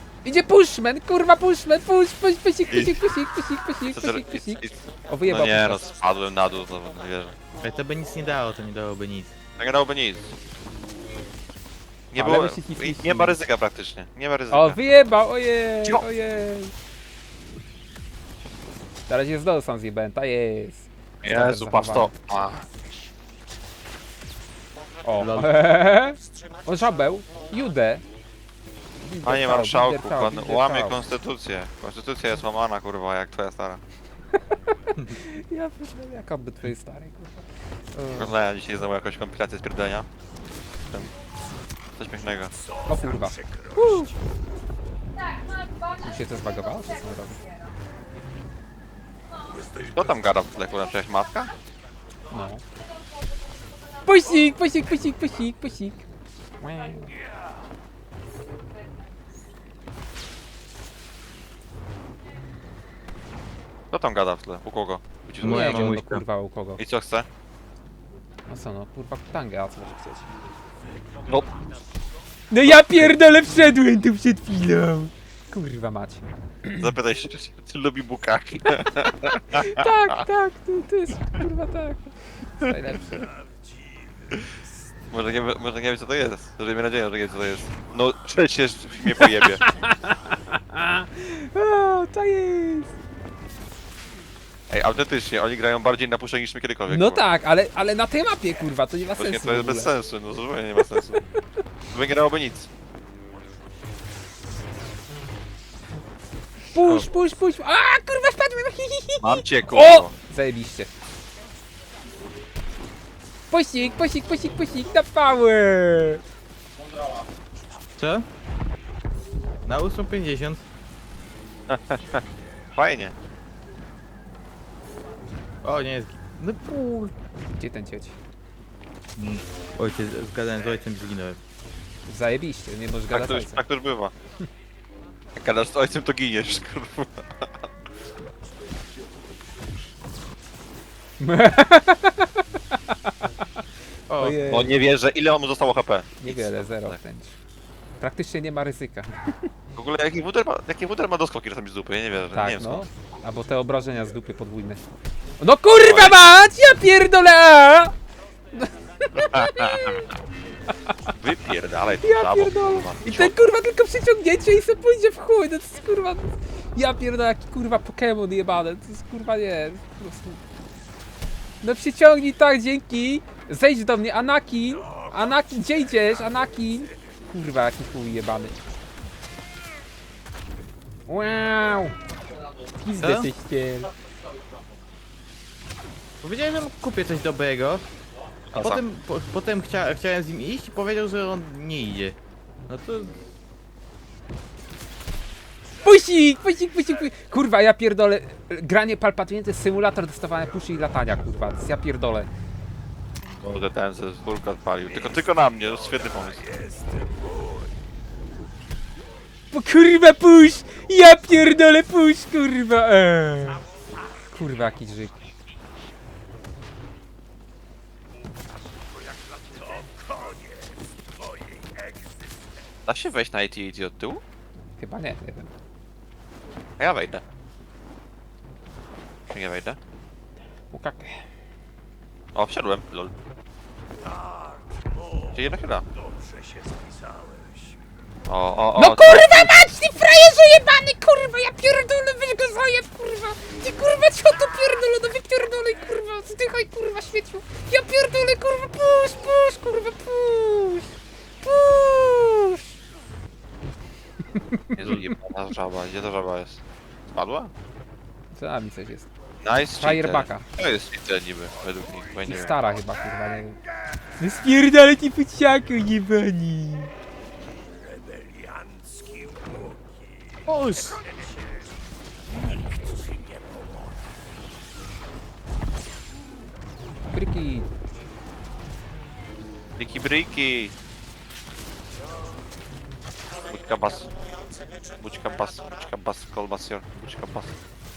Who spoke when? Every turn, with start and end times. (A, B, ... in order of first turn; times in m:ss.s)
0:00.2-0:05.8 A
0:02.7-0:03.1 B
0:03.9-0:07.4 B
0:07.6-0:09.3 C
0:09.6-0:10.4 B
0:12.1-0:14.8 B
0:12.2-0:13.4 A
0:14.5-0:16.7 A
0:19.1-0:22.1 A
0:21.2-0:22.7 B
0:25.0-0:28.0 A
0:25.2-0:25.6 C
0:29.0-0:31.0 A
0:29.2-0:33.8 B
0:34.5-0:38.3 A
0:38.1-0:40.1 B
0:42.0-0:42.5 B
0:42.8-0:44.1 A
0:46.0-0:47.5 A
0:49.7-0:51.5 B
0:52.3-0:52.6 A
0:54.0-0:56.0 A
0:56.6-0:57.1 A
1:03.9-1:05.9 B
1:05.4-1:06.2 C
1:05.4-1:06.8 A
1:06.8-1:07.3 B
1:08.5-1:10.2 A
1:11.2-1:11.5 B
1:12.5-1:16.9 A
1:12.6-1:13.0 B
1:16.8-1:20.2 B
1:18.8-1:23.3 A
1:25.1-1:29.6 B
1:29.1-1:32.9 A
1:34.7-1:37.2 B
1:36.9-1:39.9 A
1:39.2-1:41.2 B
1:40.9-1:41.4 A
1:41.9-1:42.7 B
1:46.7-1:50.9 A
1:46.8-1:47.1 C
1:49.2-1:50.1 B
1:53.5-1:56.2 A
1:58.0-1:58.2 C
1:59.7-2:00.6 C
2:01.7-2:02.2 B
2:02.7-2:03.1 B
2:05.6-2:07.1 C
2:07.6-2:08.2 A
2:09.2-2:11.4 C
2:12.1-2:13.6 A
2:13.1-2:14.1 B
2:15.4-2:17.6 B
2:21.2-2:23.6 A
2:24.1-2:24.4 C
2:24.2-2:24.8 A
2:24.4-2:27.0 B
2:26.2-2:27.4 A
2:28.0-2:29.5 A
2:29.8-2:32.8 B
2:32.3-2:34.8 A
2:35.4-2:37.9 A
2:35.7-2:36.3 B
2:38.5-2:40.0 A
2:39.2-2:40.0 B
2:41.1-2:43.4 B
2:42.0-2:50.4 A
2:51.6-2:58.6 A
3:01.1-3:01.9 A
3:02.8-3:03.9 A
3:03.0-3:03.3 C
3:06.2-3:07.8 C
3:08.5-3:08.8 B
3:08.6-3:12.2 C
3:12.7-3:13.1 C
3:15.8-3:22.3 A
3:23.3-3:26.5 B
3:29.5-3:33.6 A
3:34.3-3:35.1 A
3:42.9-3:44.2 B
3:44.8-3:45.5 A
3:46.8-3:47.2 B
3:49.3-3:49.8 B
3:50.7-3:51.2 A
3:52.3-3:53.1 B
3:55.3-3:55.8 B
3:58.3-3:59.5 B
3:58.8-4:10.9 A
4:11.4-4:12.6 A
4:14.3-4:15.1 A
4:14.8-4:17.5 B
4:18.3-4:19.1 A
4:19.4-4:22.6 B
4:19.7-4:20.4 A
4:22.2-4:23.6 A
4:24.2-4:26.9 A
4:30.4-4:31.1 C
4:37.1-4:37.7 A
4:39.8-4:40.7 B
4:43.4-4:44.1 B
4:44.8-4:47.6 B